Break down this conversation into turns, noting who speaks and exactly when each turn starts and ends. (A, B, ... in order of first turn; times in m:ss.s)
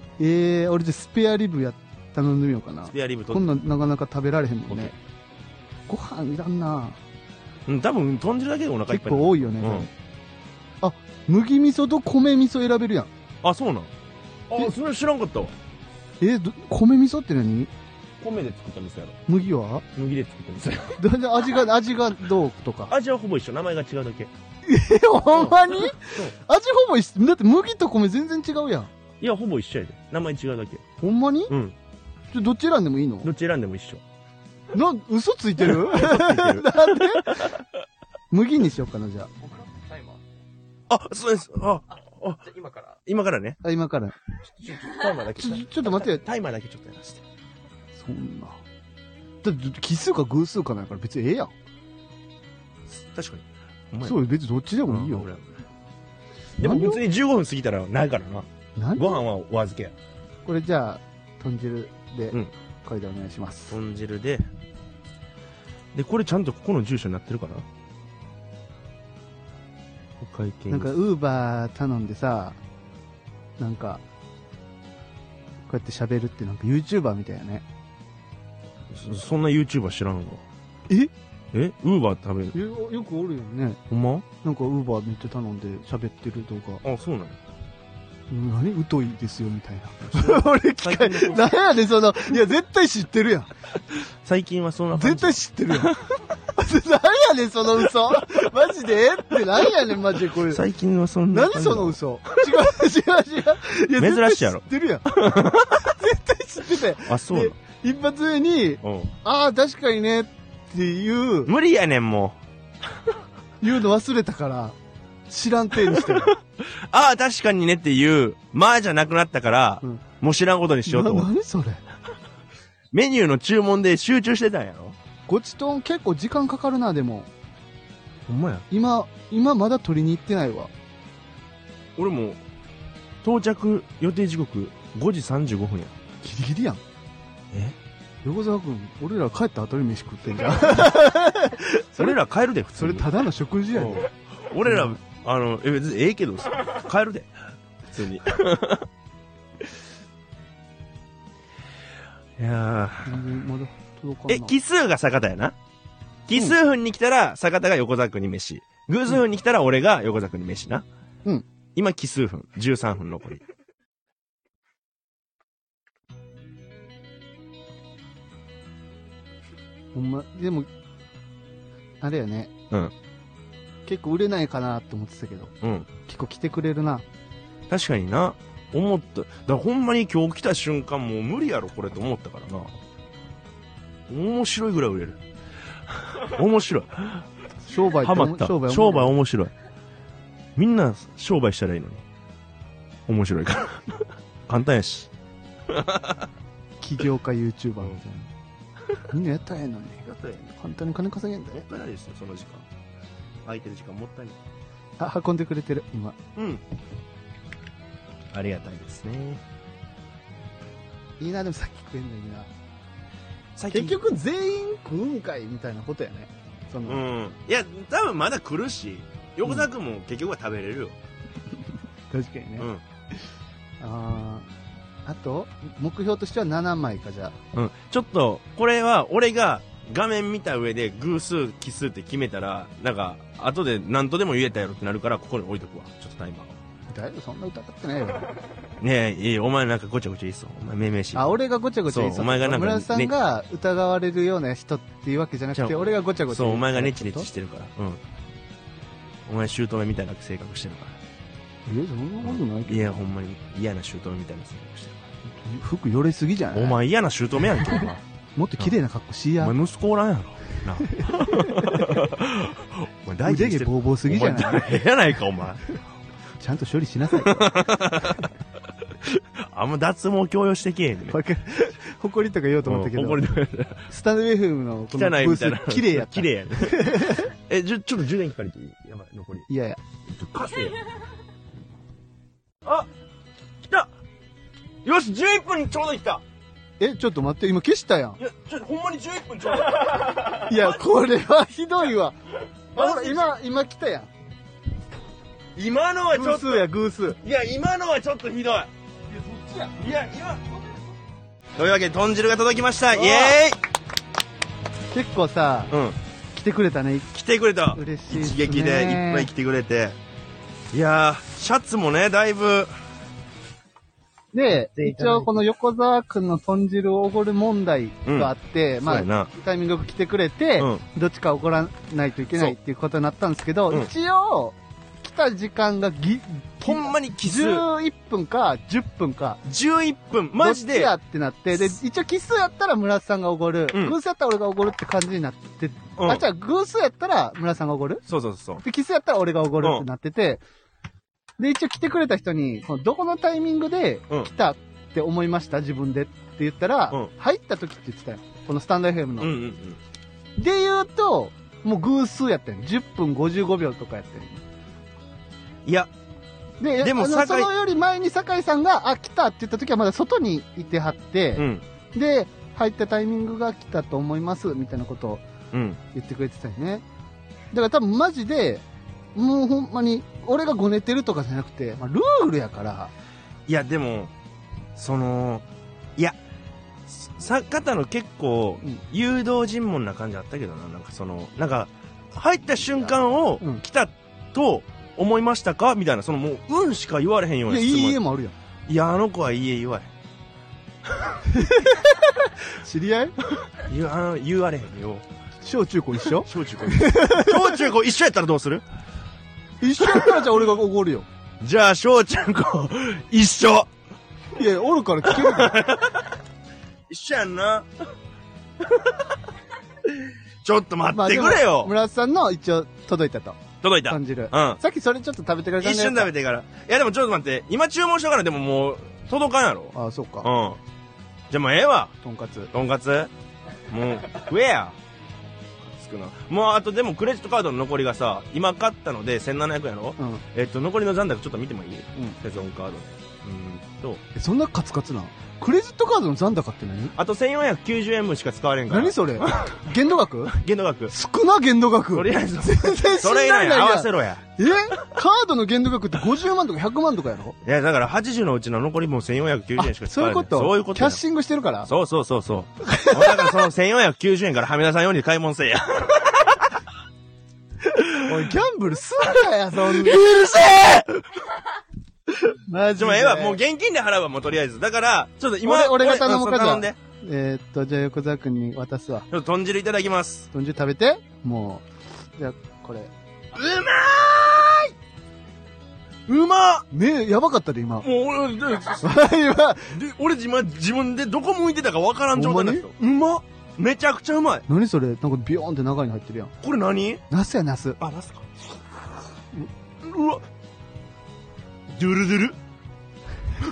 0:00.2-0:04.9 A
0:02.9-0:03.5 B
0:04.7-0:04.9 B
0:05.9-0:07.0 A
0:07.6-0:09.9 B
0:08.9-0:09.9 A
0:10.8-0:13.1 A
0:13.4-0:13.9 B
0:14.5-0:15.5 B
0:16.2-0:17.7 A
0:18.2-0:19.2 B
0:19.3-0:19.8 A
0:19.9-0:21.0 B
0:21.0-0:22.9 A
0:22.9-0:24.3 B
0:24.6-0:28.9 A
0:25.3-0:26.3 B
0:29.2-0:30.8 B
0:31.0-0:31.5 A
0:31.5-0:31.8 B
0:32.3-0:33.3 A
0:33.2-0:34.0 B
0:34.7-0:37.6 A
0:35.6-0:37.6 B
0:38.3-0:39.3 A
0:39.4-0:40.3 C
0:40.9-0:42.4 B
0:41.9-0:43.0 C
0:43.0-0:43.6 B
0:43.6-0:44.2 A
0:44.5-0:47.2 B
0:45.4-0:46.2 A
0:48.0-0:48.6 A
0:49.4-0:51.5 A
0:52.9-0:54.2 B
0:54.0-0:55.3 A
0:54.9-0:55.6 B
0:56.6-0:59.9 B
0:56.6-0:57.0 A
0:58.8-0:59.2 A
1:00.4-1:03.8 A
1:03.7-1:04.5 B
1:05.9-1:07.6 B
1:10.2-1:11.0 B
1:10.7-1:12.6 A
1:13.6-1:14.0 A
1:15.7-1:17.6 A
1:18.9-1:20.4 B
1:21.5-1:22.5 B
1:22.5-1:23.8 A
1:23.9-1:24.2 B
1:24.4-1:26.8 A
1:26.8-1:27.4 B
1:28.3-1:33.5 A
1:30.0-1:31.6 B
1:34.2-1:36.0 B
1:34.9-1:40.6 A
1:40.3-1:42.6 B
1:41.3-1:51.5 A
1:44.0-1:45.9 B
1:47.0-1:47.5 B
1:48.8-1:49.1 B
1:51.4-1:52.4 B
1:53.6-1:54.8 A
1:55.3-1:56.4 A
1:55.9-2:01.3 B
2:00.8-2:01.8 A
2:02.9-2:05.0 B
2:05.3-2:07.3 A
2:08.3-2:08.6 B
2:08.7-2:10.7 A
2:12.0-2:12.4 B
2:13.2-2:16.0 B
2:16.2-2:16.8 A
2:17.5-2:17.8 B
2:18.2-2:22.1 A
2:21.9-2:23.1 B
2:22.7-2:24.1 A
2:23.7-2:28.9 B
2:24.6-2:25.0 A
2:32.4-2:33.2 B
2:33.0-2:34.6 A
2:34.3-2:35.6 B
2:36.3-2:40.8 B
2:41.8-2:43.4 B
2:49.9-2:50.7 A
2:52.0-2:52.5 A
2:53.8-2:55.5 A
2:55.6-2:55.9 B
2:56.0-2:57.0 A
2:57.7-3:02.7 B
3:04.1-3:05.2 B
3:05.9-3:07.3 B
3:07.6-3:09.1 A
3:07.9-3:09.5 B
3:10.6-3:12.0 B
3:13.1-3:15.1 B
3:15.7-3:16.3 B
3:16.8-3:18.3 A
3:19.1-3:21.6 A
3:20.0-3:20.4 B
3:21.5-3:22.7 B
3:23.4-3:24.4 B
3:25.0-3:26.2 A
3:26.3-3:26.6 B
3:28.3-3:29.4 B
3:31.2-3:32.5 A
3:33.6-3:34.0 B
3:33.7-3:37.0 A
3:36.8-3:40.9 B
3:42.1-3:42.7 A
3:43.8-3:44.5 A
3:45.0-3:47.3 A
3:47.5-3:56.6 B
3:56.9-3:58.3 A
3:58.8-4:03.1 B
4:01.1-4:07.3 A
4:05.5-4:08.0 B
4:09.2-4:11.0 B
4:11.6-4:13.0 A
4:12.2-4:15.0 B
4:15.2-4:16.8 A
4:16.5-4:18.0 B
4:18.4-4:19.5 A
4:19.4-4:25.6 B
4:20.8-4:22.0 A
4:23.2-4:24.8 A
4:26.4-4:28.2 A
4:27.2-4:28.3 B
4:28.8-4:31.2 B
4:31.1-4:33.2 A
4:32.6-4:33.9 B
4:33.9-4:37.3 A
4:34.9-4:39.5 B
4:39.5-4:39.8 A
4:40.1-4:40.8 B
4:42.6-4:42.9 B
4:43.6-4:43.9 B
4:44.8-4:46.2 B
4:46.8-4:48.2 A
4:48.2-4:50.8 B
4:50.3-4:52.2 A
4:52.7-4:53.4 B
4:52.7-4:54.1 A
4:55.5-4:56.7 B
4:56.1-4:57.2 A
4:57.2-4:58.7 B
4:59.1-4:59.7 C
4:59.8-5:00.5 B
5:01.6-5:03.6 B
5:02.9-5:03.4 A
5:04.9-5:05.7 A
5:05.7-5:06.0 B
5:06.3-5:07.1 A
5:07.1-5:10.0 B
5:07.7-5:09.3 A
5:10.7-5:12.7 B
5:14.3-5:29.4 A
5:14.8-5:15.3 B
5:18.0-5:18.3 B
5:18.8-5:19.3 B
5:26.6-5:27.6 B
5:29.4-5:30.9 B
5:30.4-5:38.0 A
5:33.7-5:34.0 B
5:36.0-5:36.2 B
5:38.0-5:38.6 B
5:38.6-5:40.4 A
5:39.6-5:39.9 B
5:41.4-5:49.4 A
5:49.2-5:49.8 B
5:50.4-5:54.4 A
5:55.6-5:55.9 B
5:56.6-6:05.2 A
5:56.8-5:57.5 B
6:01.4-6:01.6 B
6:05.5-6:05.8 B
6:05.9-6:06.8 A
6:07.5-6:08.6 A
6:09.1-6:12.9 A
6:13.5-6:14.1 B
6:14.7-6:16.2 B
6:16.9-6:28.0 B
6:27.5-6:28.3 A
6:28.7-6:29.9 B
6:31.2-6:33.2 A
6:33.5-6:35.0 B
6:35.4-6:37.6 A
6:36.1-6:38.6 B
6:39.6-6:41.1 A
6:39.8-6:40.3 B
6:41.4-6:43.7 B
6:44.3-6:45.7 A
6:45.0-6:46.1 B
6:46.9-6:47.8 B
6:48.6-6:49.1 B
6:49.8-6:51.7 B
6:50.9-6:56.1 A
6:53.6-6:54.6 B
6:55.6-7:00.6 B
6:59.7-7:00.3 A
7:01.3-7:01.9 B
7:02.0-7:02.5 A
7:02.5-7:03.1 B
7:03.7-7:04.8 B
7:05.6-7:14.0 B
7:10.0-7:10.2 A
7:14.1-7:16.9 A
7:16.9-7:19.6 B
7:18.7-7:20.3 A
7:20.3-7:20.9 B
7:20.9-7:27.4 A
7:21.9-7:24.2 B
7:27.4-7:31.0 B
7:29.6-7:31.7 A
7:31.6-7:36.6 B
7:32.6-7:33.4 A
7:37.9-7:40.1 A
7:39.6-7:41.2 B
7:42.2-7:43.4 A
7:42.8-7:46.8 B
7:45.4-7:49.0 A
7:49.1-7:50.3 B
7:50.3-7:51.6 A
7:52.2-7:52.9 A
7:53.3-7:54.7 B
7:56.1-7:56.6 B
7:56.7-7:57.9 A
7:57.8-7:59.1 B
7:58.8-7:59.8 A
7:59.7-8:04.4 B
8:02.1-8:02.7 A
8:04.5-8:06.3 A
8:06.4-8:07.0 B
8:07.1-8:07.8 A
8:07.8-8:08.3 B
8:09.8-8:10.2 B
8:11.7-8:12.4 B